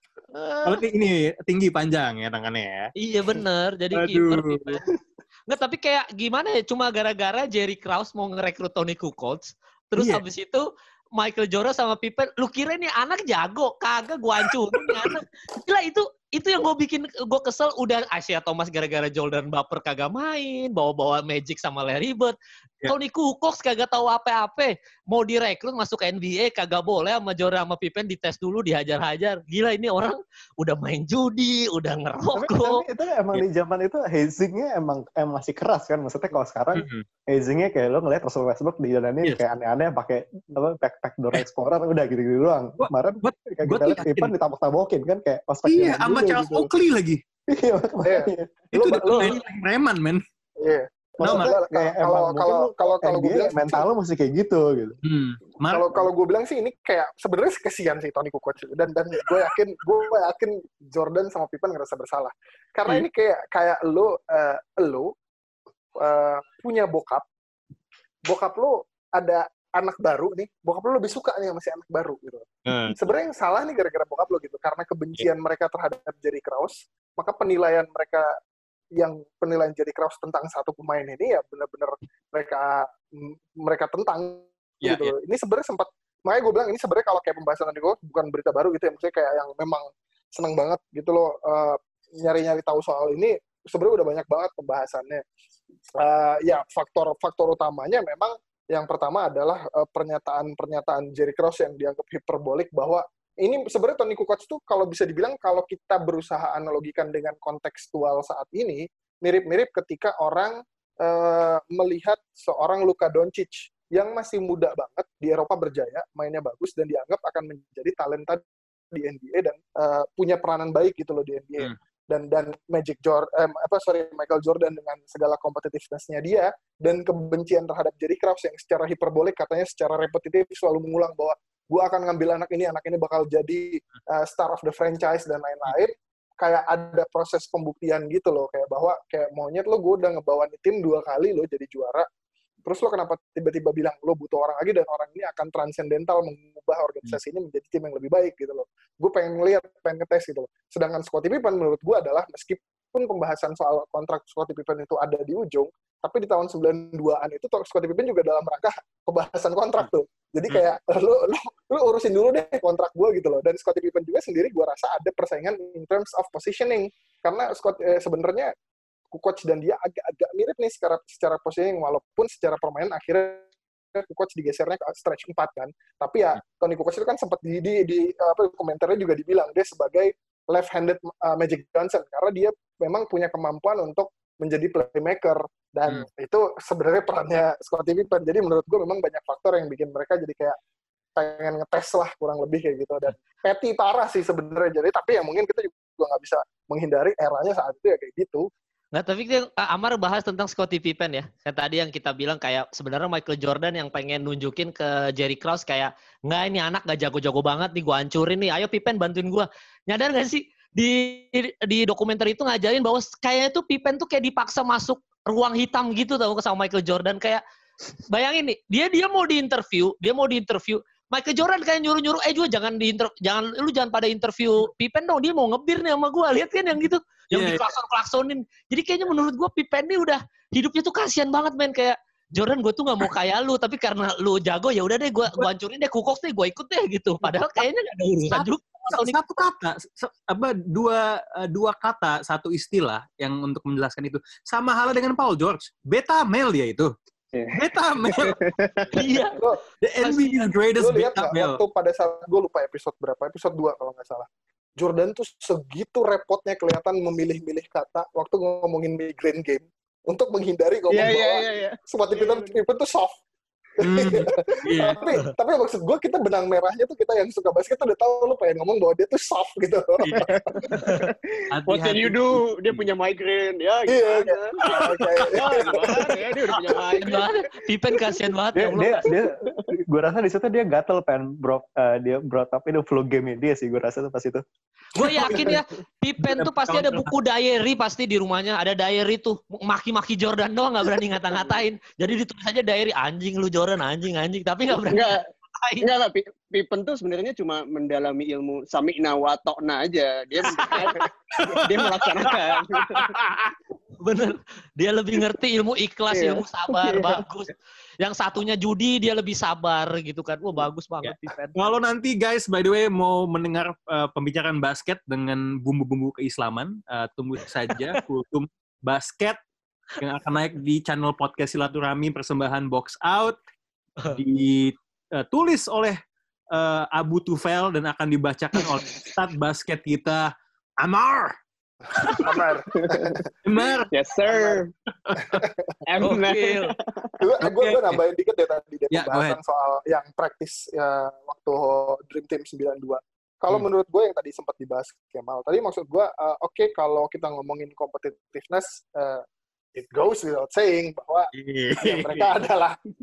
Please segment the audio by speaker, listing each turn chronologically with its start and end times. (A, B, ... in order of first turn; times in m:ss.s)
0:00.3-0:00.8 A
0:00.6-0:02.9 B
0:03.0-0:04.8 A
0:03.9-0:04.8 B
0:05.5-0:10.7 A
0:10.0-0:10.2 B
0:11.2-0:22.4 A
0:22.9-0:32.8 A
0:32.3-0:46.7 C
0:36.7-0:37.1 B
0:42.8-0:44.3 B
0:45.7-0:47.2 B
0:47.5-0:48.7 C
0:48.0-0:49.4 D
0:48.7-0:50.2 B
0:50.6-0:53.8 D
0:51.2-0:55.0 C
0:51.2-0:51.5 B
0:55.0-0:56.1 B
0:55.7-1:05.1 D
1:06.0-1:07.2 D
1:08.2-1:18.3 D
1:12.7-1:13.1 B
1:19.0-1:35.2 D
1:24.8-1:25.1 B
1:36.0-2:22.1 D
2:22.6-2:48.5 D
2:49.1-3:10.6 D
3:11.2-3:18.5 D
3:19.0-3:37.4 A
3:38.1-3:59.2 A
3:47.3-3:47.7 B
3:58.3-4:06.9 B
4:07.3-4:09.1 E
4:07.6-4:08.4 B
4:08.9-4:09.4 A
4:09.3-4:09.6 D
4:09.8-4:11.6 B
4:10.8-4:14.3 D
4:14.8-4:23.2 D
4:20.9-4:22.5 E
4:23.8-4:30.7 D
4:23.8-4:25.0 B
4:30.8-4:31.0 A
4:30.8-4:31.1 E
4:31.6-4:32.9 B
4:31.6-4:34.7 E
4:33.9-4:36.1 D
4:34.6-4:36.8 B
4:35.3-4:37.4 E
4:37.0-4:39.0 A
4:38.6-4:44.4 C
4:45.0-4:55.9 A
4:45.2-4:45.5 B
4:46.2-4:47.1 B
4:54.9-4:55.3 E
4:55.8-5:03.1 E
5:00.5-5:00.9 A
5:01.5-5:03.5 B
5:04.0-5:11.6 A
5:06.1-5:07.2 E
5:11.0-5:19.4 B
5:20.0-5:23.4 B
5:24.1-5:26.0 B
5:26.5-5:30.3 B
5:30.8-5:31.3 B
5:32.0-5:32.4 B
5:32.1-5:33.2 D
5:32.8-5:33.2 E
5:33.4-5:33.9 B
5:33.9-5:34.7 E
5:35.1-5:35.5 B
5:35.2-5:35.8 D
5:35.9-5:37.2 E
5:36.0-5:36.7 A
5:37.2-5:49.2 D
5:37.4-5:38.0 B
5:38.9-5:39.4 B
5:49.8-5:52.8 D
5:51.4-5:52.4 B